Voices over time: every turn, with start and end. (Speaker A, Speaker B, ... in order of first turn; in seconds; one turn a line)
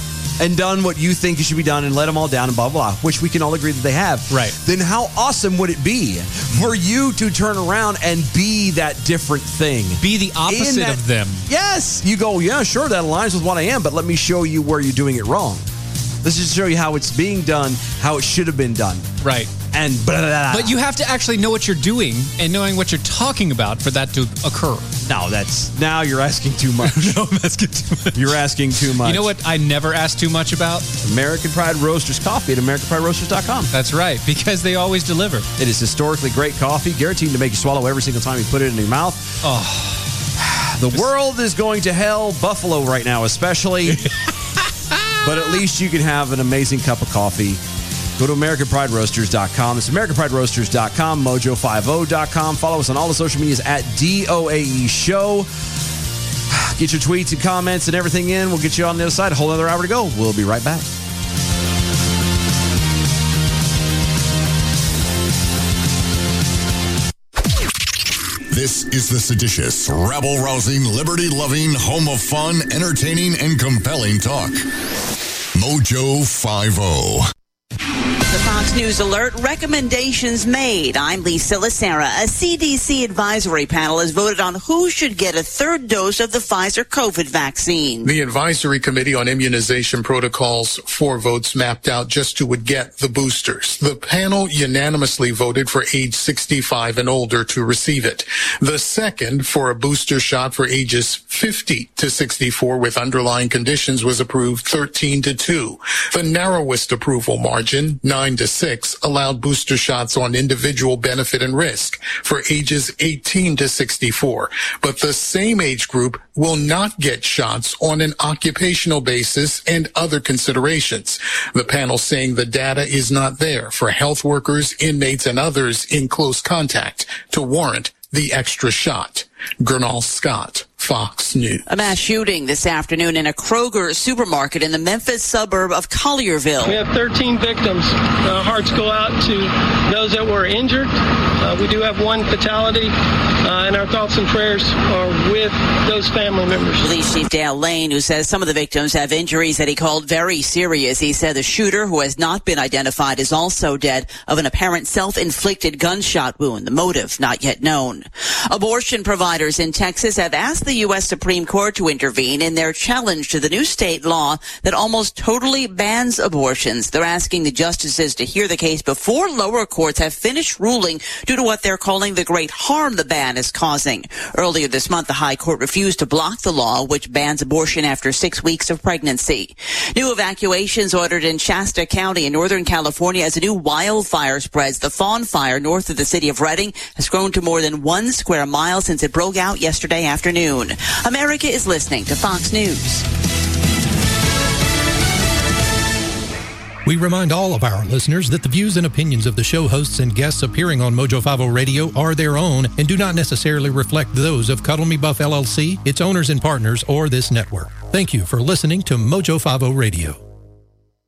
Speaker A: 0.4-15.7
Speaker B: 4.3-4.6
Speaker B: 10.0-11.5
Speaker A: 16.2-19.1
Speaker B: 19.2-19.5
Speaker A: 19.7-20.8
Speaker B: 20.5-24.9
Speaker A: 25.0-27.2
Speaker B: 26.9-28.3
Speaker A: 28.1-29.3
Speaker B: 29.0-30.9
Speaker A: 31.0-33.7
Speaker B: 33.7-35.5
Speaker A: 35.6-39.4
Speaker B: 39.4-40.2
Speaker A: 40.4-44.0
Speaker B: 43.9-45.1
Speaker A: 45.2-47.6
Speaker A: 48.2-55.5
Speaker A: 56.5-60.9
Speaker C: 68.5-74.6
Speaker C: 75.6-77.2
Speaker D: 78.3-88.1
Speaker E: 88.0-131.6
Speaker D: 131.7-136.8
Speaker F: 136.6-142.9
Speaker F: 143.4-146.9
Speaker D: 146.8-193.1
Speaker G: 196.8-210.2